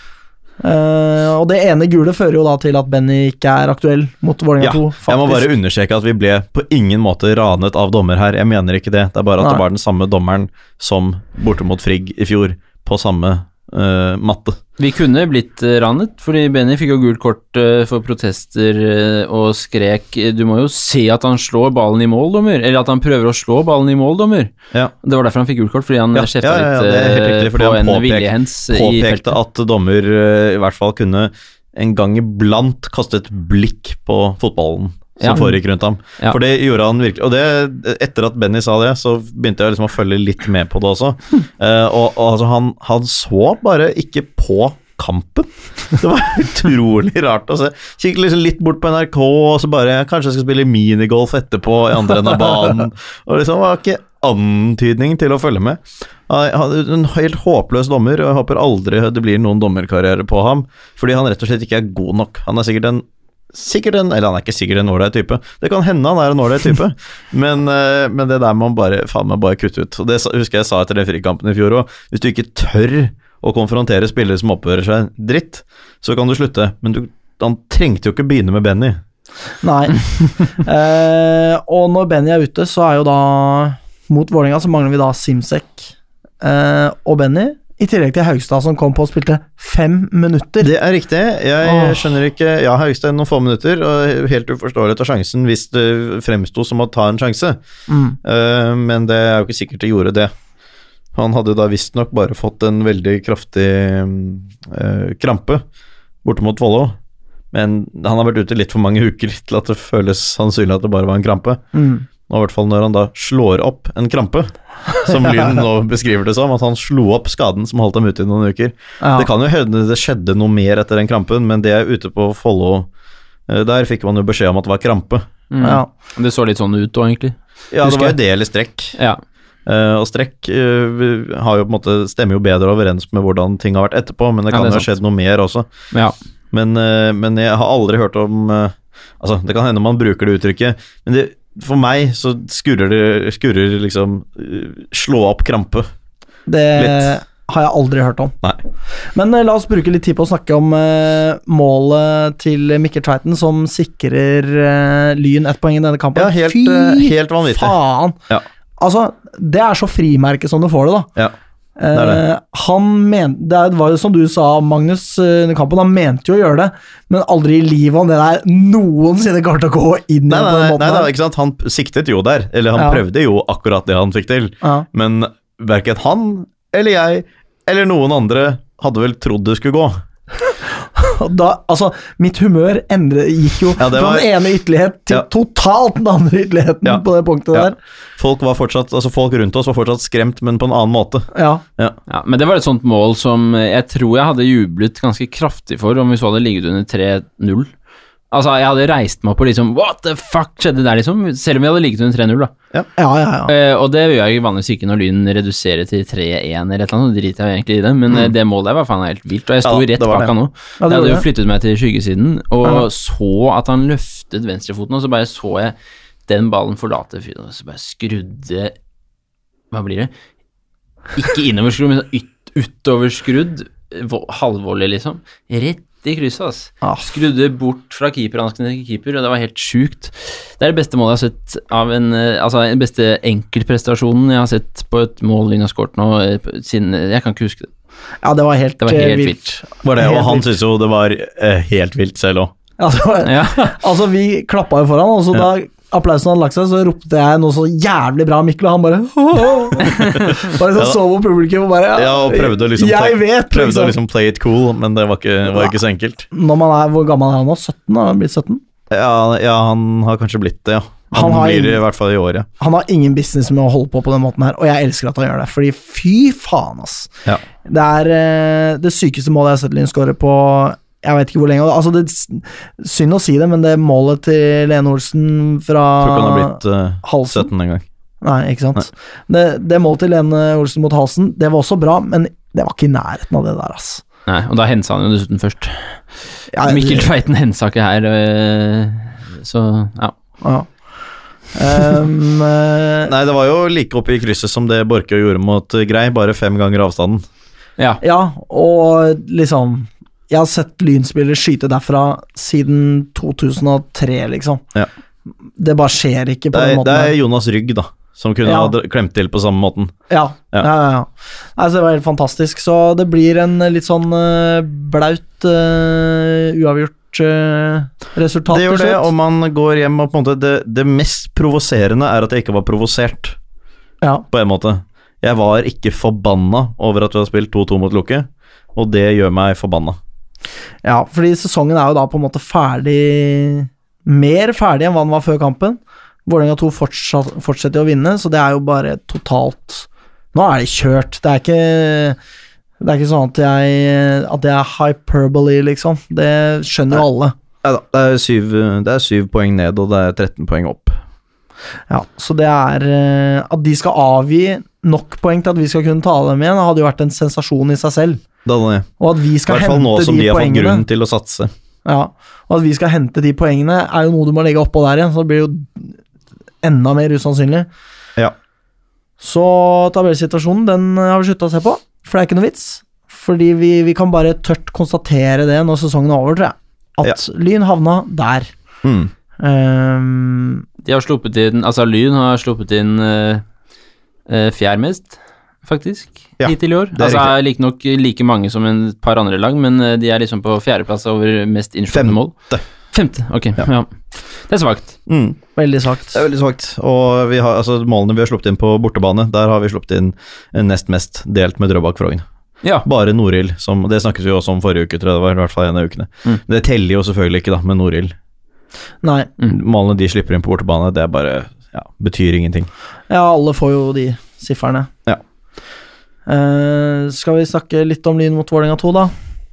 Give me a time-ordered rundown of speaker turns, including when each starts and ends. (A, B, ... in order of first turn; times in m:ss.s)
0:00.6-0:05.5 A
0:04.6-0:14.6 B
0:09.4-0:09.6 A
0:14.8-0:24.5 C
0:25.0-0:29.3 C
0:26.1-1:19.0 B
0:35.2-0:35.6 C
1:19.6-1:30.7 A
1:30.6-1:37.6 B
1:31.6-1:32.1 A
1:37.9-1:38.2 A
1:38.2-1:40.3 B
1:41.1-1:45.6 B
1:46.2-1:47.0 B
1:47.5-1:51.6 B
1:51.7-1:52.0 A
1:52.3-2:02.9 B
1:55.0-1:55.5 A
1:59.0-1:59.3 A
2:03.5-2:05.3 B
2:05.5-2:08.1 C
2:05.6-2:05.9 A
2:07.7-2:09.0 B
2:09.6-2:15.7 B
2:14.5-2:14.9 C
2:16.5-2:25.9 B
2:26.5-2:28.3 A
2:26.7-2:27.1 B
2:29.1-2:38.2 A
2:36.1-2:37.8 B
2:38.8-2:41.1 A
2:41.8-2:51.1 A
2:41.9-2:42.2 B
2:50.3-3:00.0 B
2:52.8-2:53.0 A
3:00.8-3:07.8 A
3:03.8-3:04.3 B
3:06.8-3:12.0 B
3:11.3-3:11.6 A
3:12.1-3:17.7 C
3:18.3-3:22.5 C
3:23.0-3:23.5 A
3:23.5-3:35.8 C
3:29.6-3:30.3 B
3:30.8-3:31.2 A
3:36.3-3:38.7 C
3:39.7-3:40.1 C
3:41.1-3:57.7 C
3:46.8-3:47.1 A
3:58.2-4:00.5 A
3:58.8-3:59.4 C
3:59.8-4:02.5 B
4:02.8-4:14.0 A
4:03.2-4:03.7 C
4:11.9-4:16.3 B
4:15.5-4:15.7 A
4:16.3-4:18.6 A
4:18.9-4:22.5 B
4:21.1-4:21.8 A
4:22.6-4:27.1 A
4:27.6-4:37.5 A
4:36.0-4:37.8 B
4:38.2-4:44.0 A
4:44.3-4:46.0 C
4:46.5-4:47.1 A
4:46.6-4:50.1 C
4:50.4-4:50.7 A
4:51.5-4:53.1 A
4:53.0-4:57.2 B
4:58.0-5:04.6 A
5:05.6-5:07.1 A
5:06.5-5:09.9 B
5:08.4-5:08.7 A
5:10.1-5:19.1 A
5:18.5-5:23.4 B
5:24.3-5:30.0 B
5:30.8-5:42.2 A
5:42.8-5:47.3 A
5:47.6-5:51.0 B
5:51.9-5:58.2 A
5:58.4-5:58.9 B
5:59.0-6:00.8 A
5:59.4-6:01.5 B
6:01.8-6:06.0 A
6:06.6-6:07.7 A
6:09.2-6:18.5 A
6:18.8-6:19.1 B
6:19.4-6:20.6 A
6:20.8-6:23.4 C
6:24.3-6:32.3 C
6:26.4-6:27.3 B
6:31.9-6:32.6 B
6:32.9-6:35.0 C
6:35.1-6:35.4 B
6:35.6-6:36.2 A
6:36.1-6:42.2 B
6:42.8-6:48.1 B
6:49.0-6:49.3 A
6:49.5-6:52.7 B
6:53.1-6:54.9 A
6:56.3-6:59.1 A